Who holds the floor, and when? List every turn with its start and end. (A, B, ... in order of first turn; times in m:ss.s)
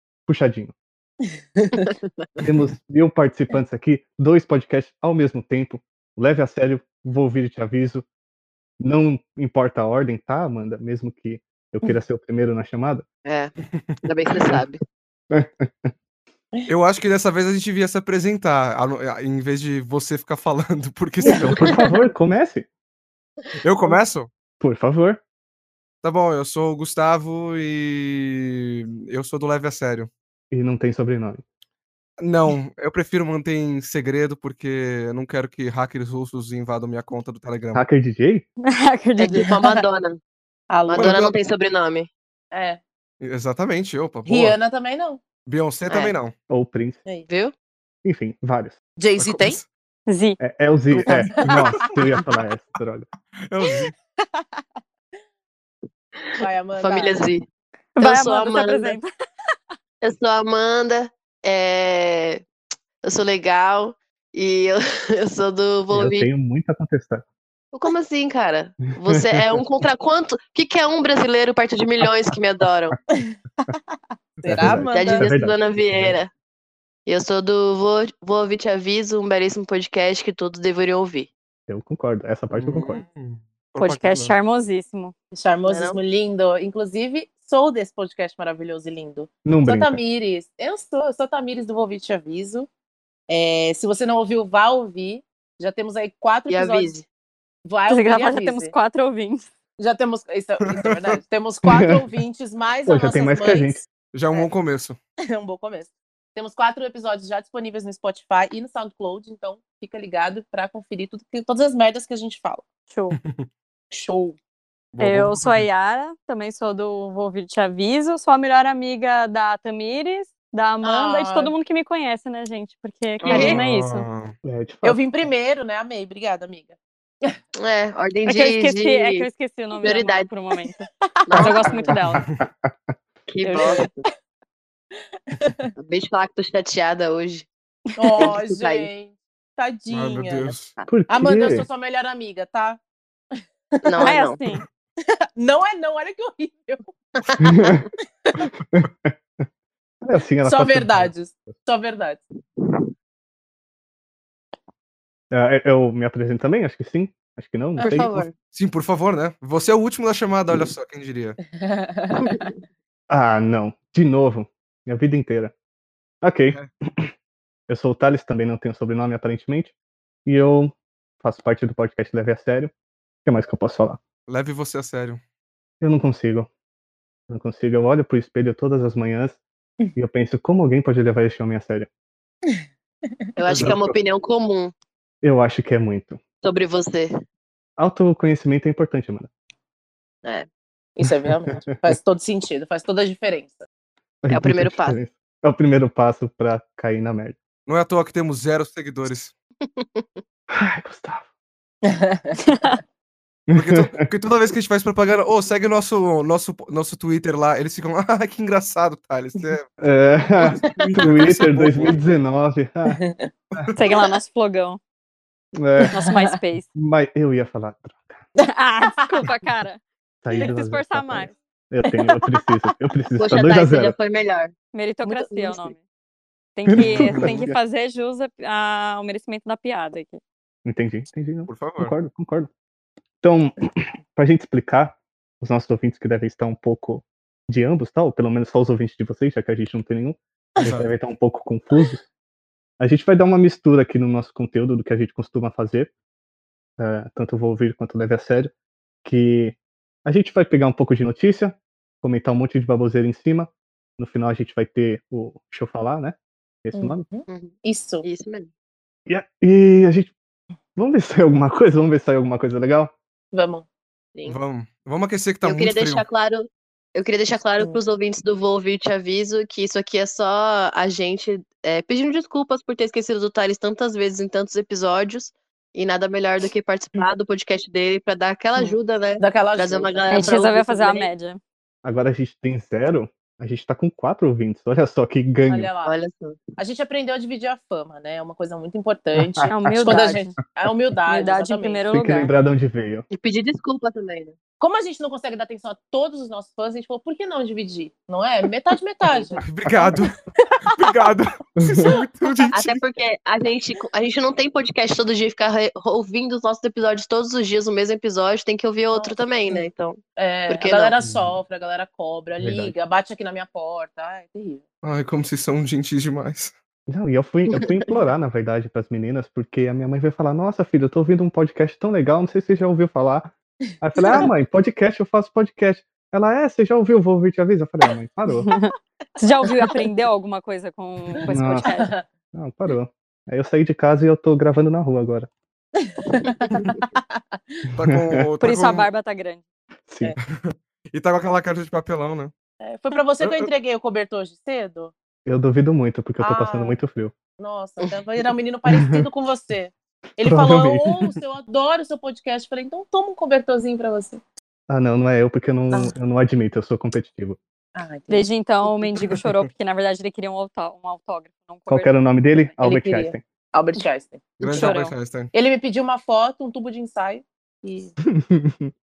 0:00.3-0:00.7 A
0:01.6-0:01.9 B
0:02.4-0:08.0 A
0:08.8-0:13.0 A
0:13.2-0:14.8 C
0:15.3-0:15.9 A
0:16.7-0:21.8 D
0:21.2-0:22.1 B
0:21.4-0:22.7 A
0:23.6-0:24.3 D
0:24.6-0:25.2 A
0:26.0-0:30.1 D
0:30.5-0:31.4 A
0:32.2-0:37.8 D
0:37.7-0:38.4 A
0:38.7-0:39.8 E
0:39.2-0:40.2 C
0:39.2-0:39.5 B
0:40.7-0:41.2 B
0:40.9-0:42.1 C
0:41.0-0:41.4 D
0:42.5-0:42.8 B
0:43.2-0:44.6 D
0:44.2-0:45.2 B
0:45.4-0:46.3 D
0:46.5-0:47.0 A
0:47.3-0:47.5 C
0:48.0-0:48.8 A
0:49.0-0:49.6 B
0:49.2-0:49.6 D
0:50.1-0:50.4 E
0:50.4-0:53.0 A
0:50.9-0:52.4 D
0:53.4-0:53.9 D
0:56.2-0:57.4 C
0:56.4-0:57.3 B
0:57.9-0:59.1 E
0:58.0-0:59.0 C
1:00.0-1:02.4 C
1:03.0-1:06.3 C
1:05.9-1:07.2 A
1:07.7-1:13.0 C
1:09.1-1:09.6 A
1:13.1-1:15.3 B
1:14.4-1:16.1 A
1:14.9-1:16.3 C
1:17.0-1:21.3 C
1:21.7-1:23.0 A
1:22.5-1:24.3 D
1:23.8-1:25.1 E
1:25.3-1:32.7 B
1:25.7-1:26.0 C
1:29.4-1:30.0 A
1:33.3-1:36.9 B
1:36.5-1:37.0 C
1:37.6-1:38.7 B
1:37.9-1:39.5 E
1:39.8-1:44.5 B
1:40.6-1:41.2 D
1:41.7-1:42.0 A
1:42.9-1:43.8 A
1:44.1-1:45.0 D
1:45.3-1:52.6 B
1:52.9-1:53.2 E
1:53.1-1:53.4 D
1:53.9-1:54.4 B
1:54.9-1:55.7 D
1:55.0-2:04.1 E
2:00.8-2:01.5 B
2:03.2-2:03.6 C
2:03.3-2:04.3 D
2:04.4-2:05.0 A
2:04.8-2:07.4 B
2:07.6-2:10.3 C
2:08.2-2:12.2 E
2:11.3-2:12.0 C
2:12.0-2:12.9 A
2:13.3-2:14.0 C
2:13.4-2:13.9 B
2:15.0-2:15.7 B
2:15.8-2:17.5 C
2:18.0-2:20.5 B
2:18.2-2:18.9 C
2:19.9-2:20.7 D
2:20.9-2:21.6 A
2:21.1-2:22.8 B
2:23.7-2:24.1 B
2:23.8-2:24.4 C
2:24.0-2:24.6 E
2:25.4-2:26.9 B
2:27.2-2:27.8 C
2:27.4-2:27.8 A
2:28.5-2:29.1 A
2:30.0-2:31.5 A
2:30.4-2:32.2 B
2:35.3-2:38.2 A
2:37.8-2:38.1 B
2:37.8-2:38.3 C
2:38.5-2:41.4 D
2:41.5-2:42.5 B
2:43.1-2:45.5 A
2:46.2-2:47.1 A
2:47.7-2:49.7 A
2:50.2-2:52.7 A
2:53.2-2:54.0 A
2:54.3-2:55.2 D
2:55.8-2:56.5 A
2:57.3-2:59.4 A
2:59.9-3:01.9 A
3:03.4-3:04.7 C
3:03.5-3:03.8 D
3:03.5-3:03.9 A
3:05.2-3:06.2 A
3:06.4-3:07.2 C
3:07.8-3:09.3 A
3:11.0-3:13.7 B
3:14.2-3:17.4 A
3:14.3-3:15.0 C
3:17.6-3:19.3 D
3:19.6-3:20.2 C
3:20.5-3:21.2 A
3:21.9-3:22.4 B
3:22.4-3:22.8 E
3:23.5-3:24.0 A
3:23.5-3:29.6 D
3:29.8-3:33.0 A
3:30.6-3:30.9 B
3:30.6-3:32.0 D
3:33.0-3:33.3 B
3:33.7-3:34.8 E
3:35.6-3:35.9 A
3:35.8-3:36.3 B
3:35.9-3:36.7 E
3:36.8-3:38.2 A
3:38.5-3:39.8 E
3:38.8-3:39.2 B
3:40.2-3:44.0 A
3:40.4-3:41.4 E
3:41.8-3:42.4 B
3:43.2-3:44.5 C
3:44.7-3:45.8 E
3:45.0-3:45.7 B
3:46.5-3:50.2 E
3:46.6-3:47.6 A
3:46.8-3:47.4 D
3:50.6-3:52.5 A
3:51.5-3:51.9 D
3:53.2-4:02.0 A
4:00.6-4:00.9 D
4:02.8-4:05.9 A
4:06.8-4:08.5 A
4:09.0-4:17.0 A
4:16.7-4:18.0 B
4:17.3-4:18.5 C
4:19.1-4:20.1 A
4:20.8-4:22.9 A
4:23.3-4:23.6 B
4:24.2-4:26.0 D
4:25.4-4:40.7 C
4:38.6-4:41.1 B
4:40.1-4:41.4 E
4:41.8-4:45.7 A
4:45.5-4:45.9 B
4:45.8-4:46.4 C
4:46.6-4:51.8 B
4:49.2-4:50.1 A
4:49.5-4:50.4 E
4:51.1-4:52.3 E
4:51.9-4:53.1 A
4:53.1-4:54.3 C
4:54.6-5:00.5 B
4:59.1-4:59.3 C
4:59.4-5:00.1 D
5:00.7-5:02.8 D
5:01.6-5:01.9 A
5:02.5-5:10.9 C
5:08.9-5:09.6 B
5:10.2-5:14.6 B
5:12.4-5:12.7 A
5:14.8-5:16.5 D
5:16.9-5:28.5 A
5:24.0-5:24.3 B
5:28.4-5:31.9 E
5:29.4-5:29.9 B
5:31.3-5:31.7 A
5:31.6-5:32.0 B
5:32.3-5:35.3 A
5:35.8-5:37.4 B
5:37.7-5:38.9 D
5:37.8-5:38.3 A
5:38.4-5:39.4 E
5:39.8-5:40.1 A
5:40.2-5:42.3 D
5:42.6-5:44.9 B
5:43.2-5:43.5 D
5:45.2-5:47.1 A
5:46.2-5:46.8 B
5:47.4-5:54.2 B
5:50.2-5:51.2 A
5:54.7-5:57.4 A
5:57.7-5:58.3 B
5:58.1-6:01.9 E
6:01.7-6:03.2 A
6:02.6-6:04.2 B
6:04.4-6:04.6 C
6:04.4-6:05.3 D
6:04.5-6:04.9 E
6:05.3-6:07.9 B
6:08.0-6:08.7 A